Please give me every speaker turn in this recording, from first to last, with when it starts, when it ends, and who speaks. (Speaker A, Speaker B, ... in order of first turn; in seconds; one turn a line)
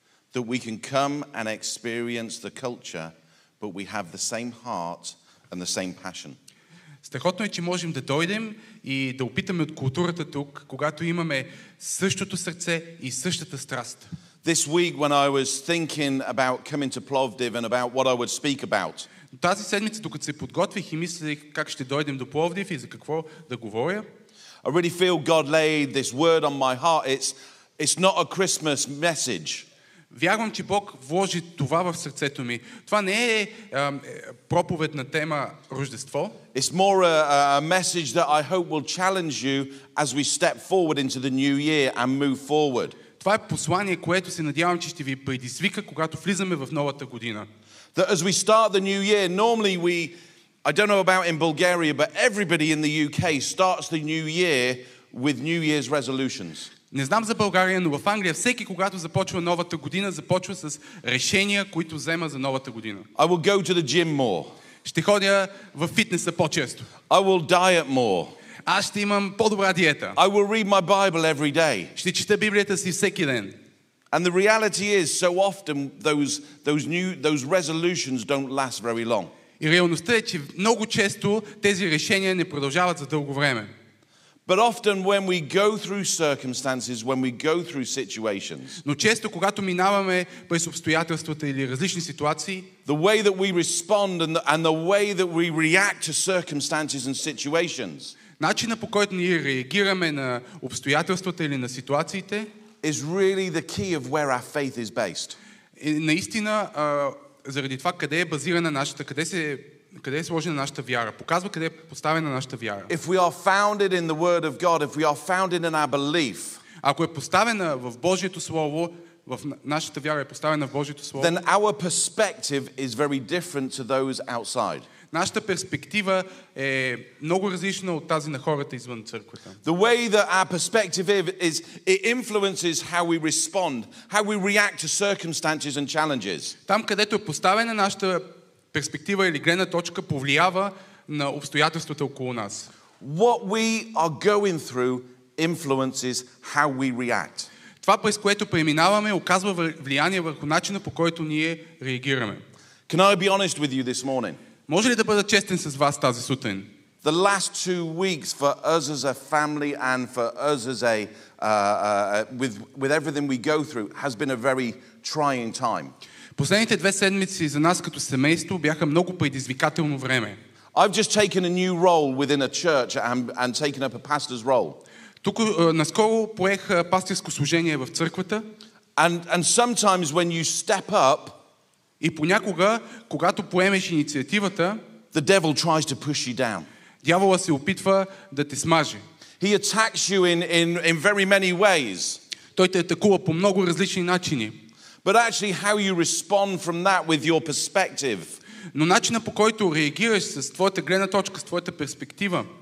Speaker A: 0.3-6.4
Speaker B: 7.0-14.1
Speaker A: 14.4-19.1
Speaker B: 19.3-24.0
Speaker A: 24.6-29.6
Speaker B: 30.1-36.4
Speaker A: 36.5-43.0
Speaker B: 43.2-47.5
Speaker A: 47.9-50.1
Speaker A: 50.6-56.7
Speaker B: 56.9-63.1
Speaker A: 63.1-64.5
Speaker B: 64.8-66.9
Speaker A: 67.1-68.3
Speaker B: 68.7-70.2
Speaker A: 70.2-71.9
Speaker B: 72.0-73.5
Speaker A: 74.1-79.3
Speaker B: 79.6-83.7
Speaker A: 84.5-88.8
Speaker B: 88.8-92.7
Speaker A: 92.8-98.2
Speaker B: 98.4-102.5
Speaker A: 102.8-105.4
Speaker B: 105.8-112.9
Speaker A: 112.9-116.6
Speaker B: 116.8-121.3
Speaker A: 121.2-124.9
Speaker B: 125.1-129.6
Speaker A: 129.6-136.5
Speaker B: 136.7-142.7
Speaker A: 143.0-147.5
Speaker B: 147.8-152.4
Speaker A: 152.9-154.4
Speaker B: 154.7-156.7
Speaker A: 157.0-165.9
Speaker B: 166.3-170.4
Speaker A: 170.7-174.8
Speaker B: 175.2-178.4
Speaker A: 179.0-181.4
Speaker B: 182.0-184.8
Speaker A: 185.1-186.7
Speaker B: 187.0-189.0
Speaker A: 189.4-192.2
Speaker B: 192.6-194.5
Speaker A: 195.0-198.3
Speaker B: 198.7-202.5